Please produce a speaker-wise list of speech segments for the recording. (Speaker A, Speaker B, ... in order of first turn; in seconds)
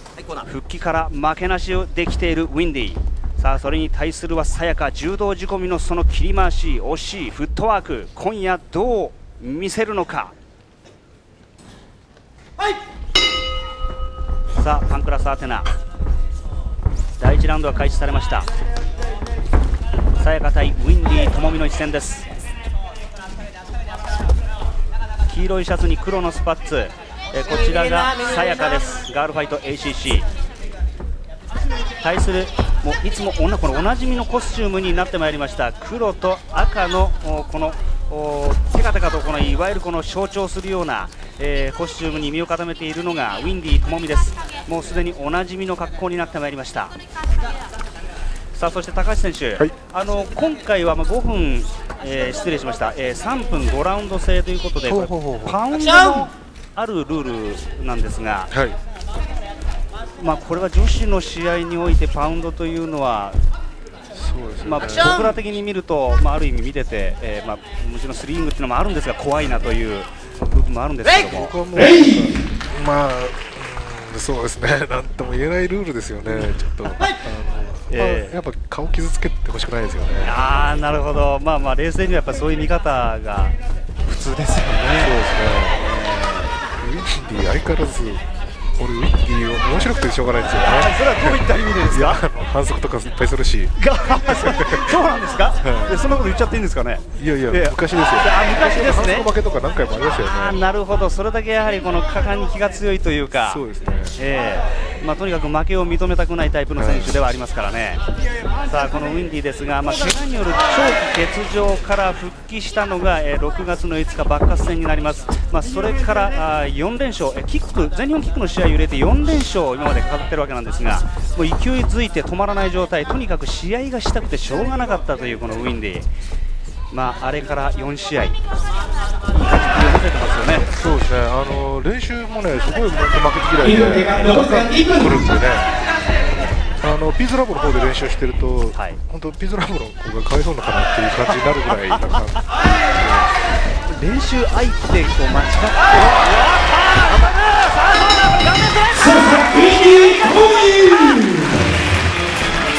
Speaker A: 0.3-10.3, 14.6-15.7, 17.2-18.5, 20.2-22.3, 25.3-30.3, 32.0-47.0, 48.5-58.5, 60.2-63.4, 64.6-71.8, 77.9-78.3, 80.2-85.2, 85.7-86.5, 90.6-92.2, 93.8-99.3, 100.2-103.6, 104.2-108.0, 108.7-126.1, 126.9-128.4, 129.3-130.7, 138.7-139.0, 141.9-142.2, 143.9-151.5
Speaker B: 54.9-55.6, 58.5-58.8, 64.1-65.4, 71.2-80.4, 85.0-85.8, 86.8-88.2, 88.8-95.0, 95.6-96.0, 97.2-100.6, 103.4-104.2, 106.8-107.2, 130.8-135.8, 136.8-142.4, 142.9-143.3, 145.9-146.5